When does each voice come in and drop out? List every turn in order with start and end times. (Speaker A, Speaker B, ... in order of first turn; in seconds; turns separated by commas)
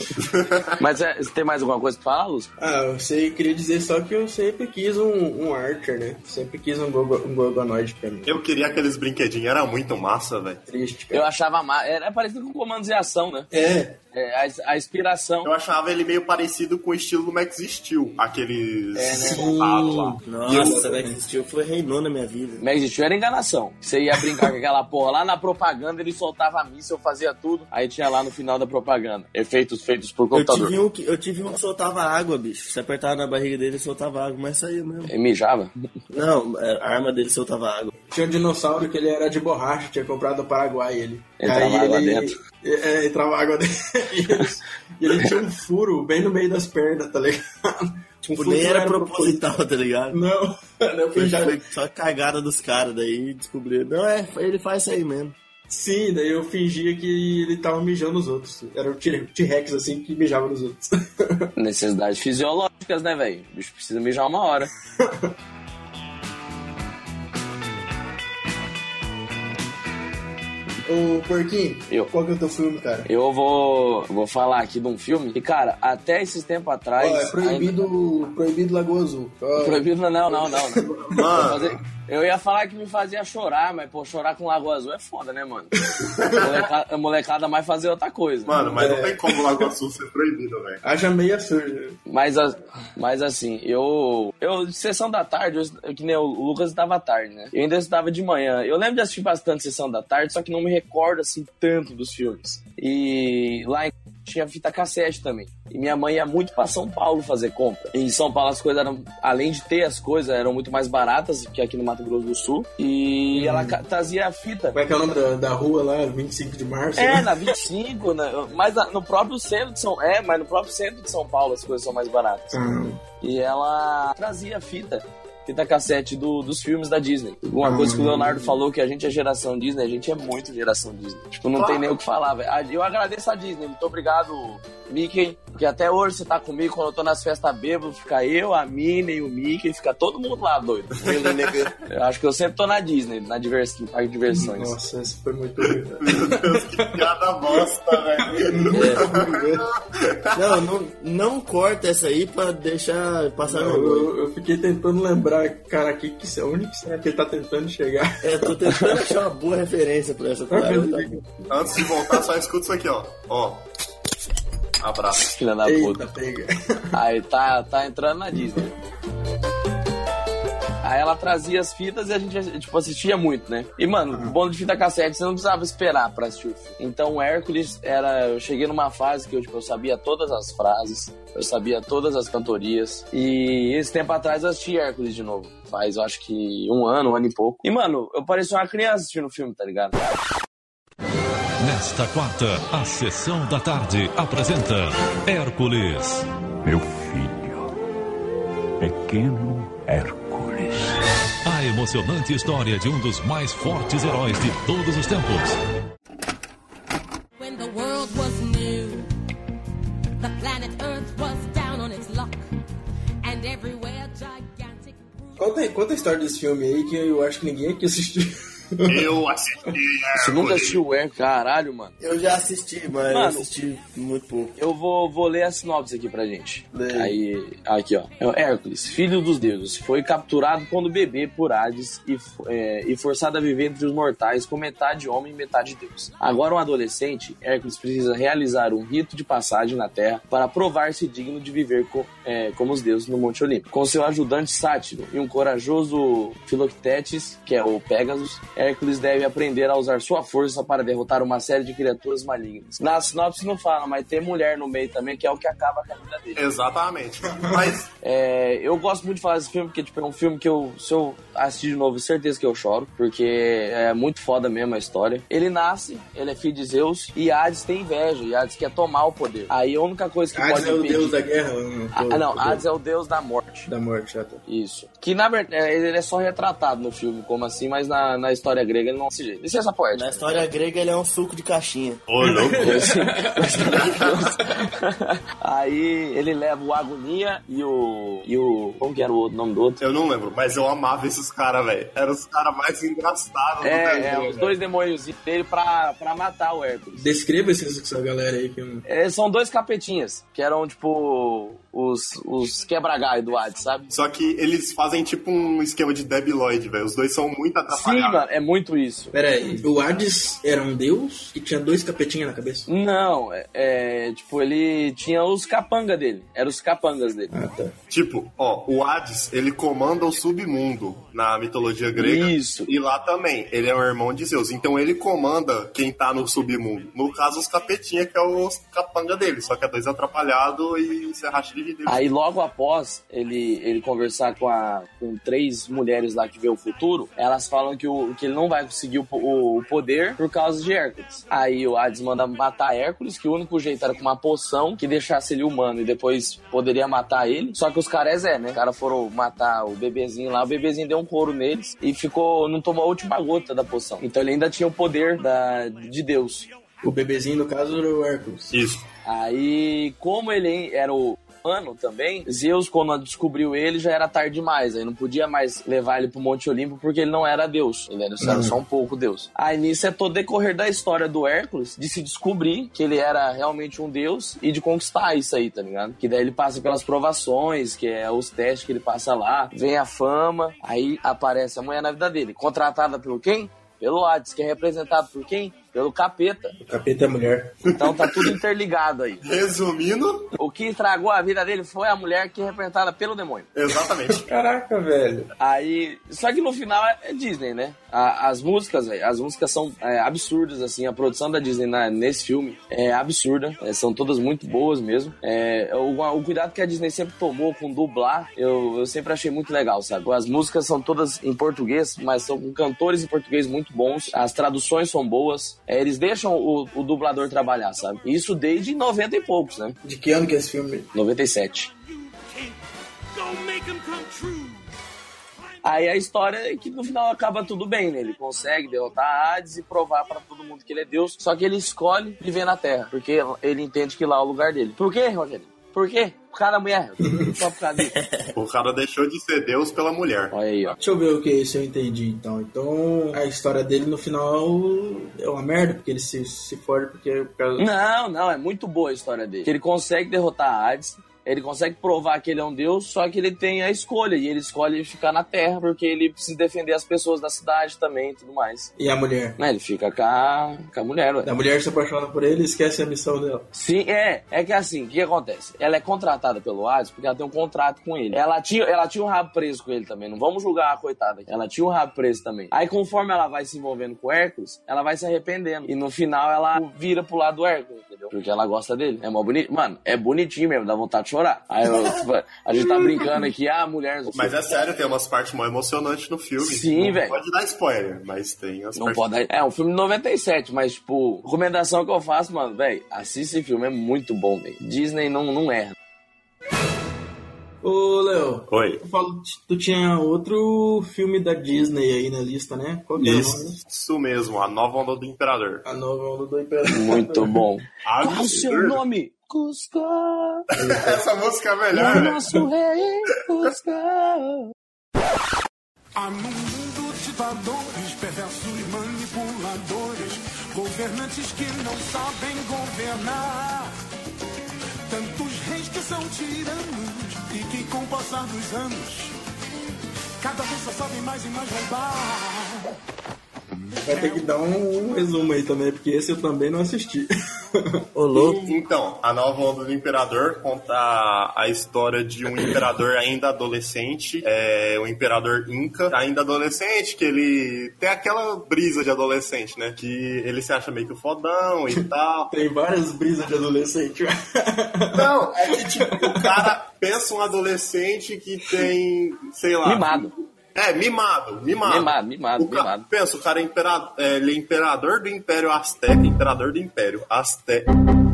Speaker A: 0.3-0.7, Speaker B: 0.8-2.5, Speaker C: 2.6-8.3, Speaker A: 8.2-10.6, Speaker C: 10.7-11.3, Speaker B: 11.1-13.5, Speaker C: 13.5-14.0, Speaker B: 14.1-15.5, Speaker A: 15.4-20.9, Speaker B: 18.9-19.5, Speaker C: 19.1-21.1, Speaker D: 20.2-22.6, Speaker B: 22.6-30.7, Speaker D: 30.3-35.1, Speaker B: 35.1-35.7, Speaker D: 36.1-37.9, Speaker C: 38.1-49.6, Speaker B: 41.4-42.3, Speaker D: 48.3-50.2, Speaker C: 50.1-51.6, Speaker D: 51.1-55.4, Speaker C: 55.7-61.5, Speaker B: 61.5-64.7, Speaker C: 65.0-65.3, Speaker C: 70.8-73.1, Speaker B: 73.0-77.8, Speaker C: 77.0-81.6, Speaker B: 79.6-85.7, Speaker A: 81.1-81.8, Speaker C: 85.8-86.1, Speaker A: 86.2-86.5, Speaker B: 86.3-88.6, Speaker A: 88.5-90.8, Speaker C: 88.7-89.7, Speaker C: 90.8-92.0, Speaker B: 92.1-114.8, Speaker C: 113.3-113.8, Speaker C: 114.7-117.3, Speaker B: 117.0-122.6, Speaker C: 122.5-123.0, Speaker B: 123.2-141.0, Speaker C: 127.6-128.6, Speaker A: 131.6-131.9, Speaker D: 141.0-141.7, Speaker B: 141.9-144.7, Speaker C: 144.3-147.0, Speaker A: 146.0-150.4, Speaker C: 148.3-149.7, Speaker D: 148.7-149.2, Speaker D: 150.3-154.1, Speaker C: 153.4-158.5, Speaker D: 158.2-161.2, Speaker C: 160.5-162.2, Speaker A: 161.5-163.6, Speaker A: 164.8-165.2, Speaker B: 165.2-166.0, Speaker C: 165.6-166.8, Speaker B: 166.9-168.7, Speaker B: 170.8-190.0, Speaker E: 191.6-196.2, Speaker F: 196.6-197.7, Speaker F: 198.8-201.0, Speaker E: 201.4-205.6, Speaker G: 207.4-209.1, Speaker G: 210.2-212.4, Speaker G: 213.2-215.4, Speaker C: 215.4-219.1, Speaker A: 218.9-220.8, Speaker B: 220.1-221.9, Speaker D: 222.0-224.5, Speaker B: 223.1-223.5, Speaker B: 224.6-256.4, Speaker D: 226.7-227.1, Speaker A: 256.4-257.9, Speaker C: 257.4-257.8, Speaker B: 258.0-271.2, Speaker C: 270.3-272.6, Speaker B: 271.9-273.7, Speaker C: 273.7-274.4, Speaker B: 274.5-280.3, Speaker D: 279.9-282.0, Speaker A: 282.1-282.9, Speaker C: 282.2-283.6, Speaker B: 282.6-289.8, Speaker A: 289.8-294.1, Speaker B: 293.6-297.1, Speaker C: 294.0-294.5, Speaker C: 297.0-298.8, Speaker B: 298.8-303.9, Speaker A: 303.9-308.2, Speaker B: 307.7-309.2, Speaker C: 309.1-312.7, Speaker B: 312.7-317.3, Speaker C: 317.3-317.7, Speaker A: 317.9-332.0, Speaker B: 321.9-322.7, Speaker B: 331.9-356.5, Speaker C: 356.8-358.5, Speaker A: 358.5-358.9, Speaker B: 359.0-386.5, Speaker C: 368.2-368.6, Speaker C: 386.6-387.5, Speaker A: 387.7-388.3, Speaker B: 387.7-389.2, Speaker A: 389.2-390.3, Speaker B: 390.4-393.5, Speaker A: 393.5-394.3, Speaker C: 394.1-395.3, Speaker B: 395.4-419.8, Speaker C: 419.8-420.9, Speaker B: 420.9-421.7, Speaker H: 422.0-422.5, Speaker H: 423.1-424.6, Speaker B: 425.6-437.9, Speaker D: 437.9-438.3, Speaker A: 438.3-440.3, Speaker B: 440.3-440.8, Speaker C: 440.8-447.6, Speaker B: 447.6-458.7, Speaker C: 458.8-459.4, Speaker B: 459.4-461.3, Speaker C: 461.2-463.4, Speaker B: 463.5-484.6, Speaker A: 484.1-489.0, Speaker B: 486.4-487.2, Speaker B: 488.8-495.7, Speaker C: 497.6-503.6, Speaker A: 498.5-498.8, Speaker A: 503.0-505.6, Speaker C: 505.6-507.4, Speaker B: 506.7-510.5, Speaker A: 507.9-508.8, Speaker C: 510.6-511.0, Speaker A: 510.6-512.2, Speaker B: 511.7-514.5, Speaker C: 511.8-512.4, Speaker H: 516.0-523.7, Speaker H: 524.9-529.1, Speaker H: 530.2-532.7, Speaker C: 533.8-537.8, Speaker H: 534.0-534.2, Speaker D: 537.9-538.6, Speaker A: 538.1-552.3, Speaker C: 552.3-556.5, Speaker A: 554.9-567.7, Speaker B: 559.6-560.1, Speaker B: 561.6-562.9